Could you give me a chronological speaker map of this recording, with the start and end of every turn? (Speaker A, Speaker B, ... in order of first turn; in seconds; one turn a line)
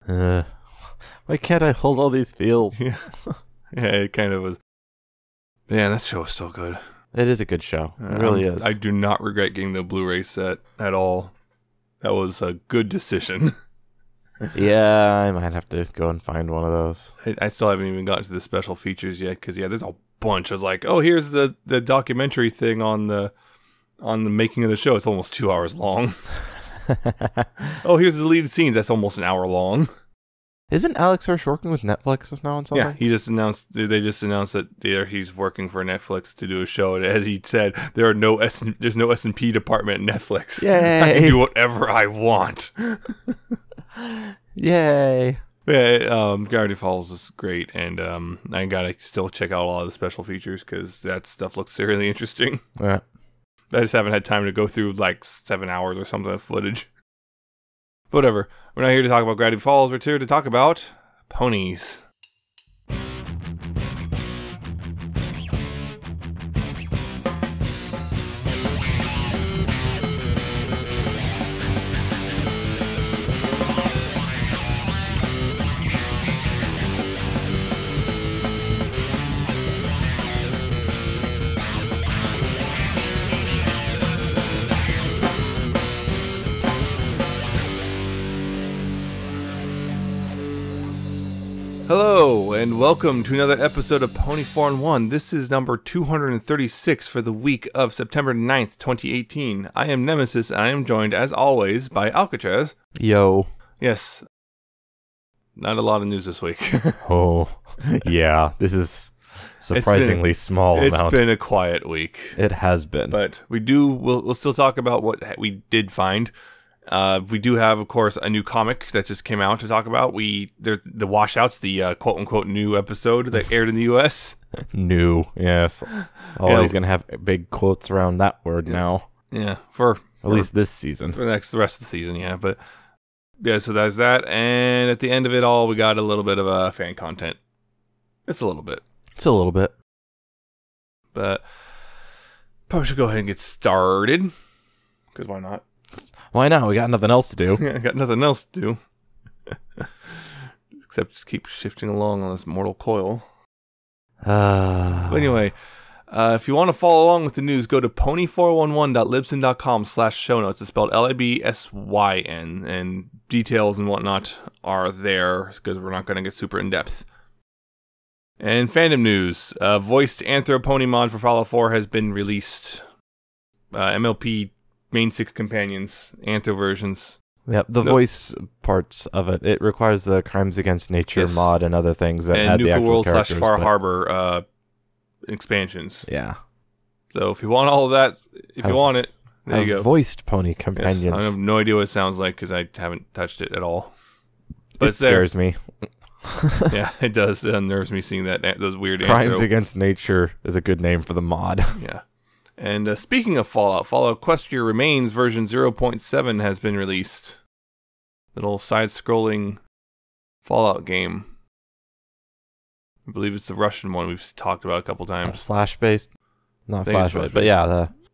Speaker A: 0.1-3.4
Speaker B: 2.8-3.1
Speaker B: 3.7-4.6
Speaker B: 5.7-6.8
Speaker A: 7.1-8.7
Speaker B: 8.0-11.3
Speaker B: 12.0-13.6
Speaker A: 14.5-17.1
Speaker B: 17.2-23.3
Speaker B: 24.0-26.5
Speaker A: 26.9-27.5
Speaker B: 27.8-29.9
Speaker A: 30.7-33.0
Speaker B: 32.7-43.4
Speaker A: 40.6-41.4
Speaker A: 44.0-45.4
Speaker B: 45.7-52.6
Speaker A: 52.8-53.0
Speaker B: 53.7-56.9
Speaker B: 58.1-62.0
Speaker B: 91.9-102.8
Speaker A: 103.0-103.5
Speaker B: 103.8-104.2
Speaker B: 105.6-107.0
Speaker A: 107.0-111.2
Speaker B: 109.7-112.4
Speaker A: 112.4-113.2
Speaker B: 113.1-116.3
Speaker B: 116.9-124.4
Speaker A: 124.7-129.1
Speaker B: 126.2-126.8
Speaker B: 128.7-130.5
Speaker A: 130.2-131.2
Speaker B: 131.1-132.6
Speaker B: 133.4-137.4
Speaker B: 138.3-138.8
Speaker A: 139.2-139.7
Speaker B: 141.1-141.5
Speaker B: 142.7-144.3
Speaker B: 145.1-145.6
Speaker A: 146.0-147.6
Speaker B: 147.6-148.8
Speaker B: 150.8-153.2
Speaker A: 154.2-155.3
Speaker B: 155.1-167.1
Speaker B: 168.4-172.8
Speaker B: 173.7-177.2
Speaker A: 177.5-183.7
Speaker B: 181.2-181.5
Speaker B: 182.3-184.4
Speaker B: 185.3-186.1
Speaker A: 186.1-186.4
Speaker B: 187.1-189.9
Speaker A: 188.6-189.0
Speaker A: 189.5-191.3
Speaker B: 190.8-193.9
Speaker B: 194.8-195.3
Speaker A: 194.8-196.7
Speaker B: 196.7-199.5
Speaker A: 199.0-201.8
Speaker B: 201.8-202.0
Speaker B: 202.6-207.4
Speaker B: 208.3-209.6
Speaker B: 210.4-211.3
Speaker B: 213.1-215.4
Speaker A: 215.2-216.1
Speaker A: 216.7-217.9
Speaker B: 216.8-217.6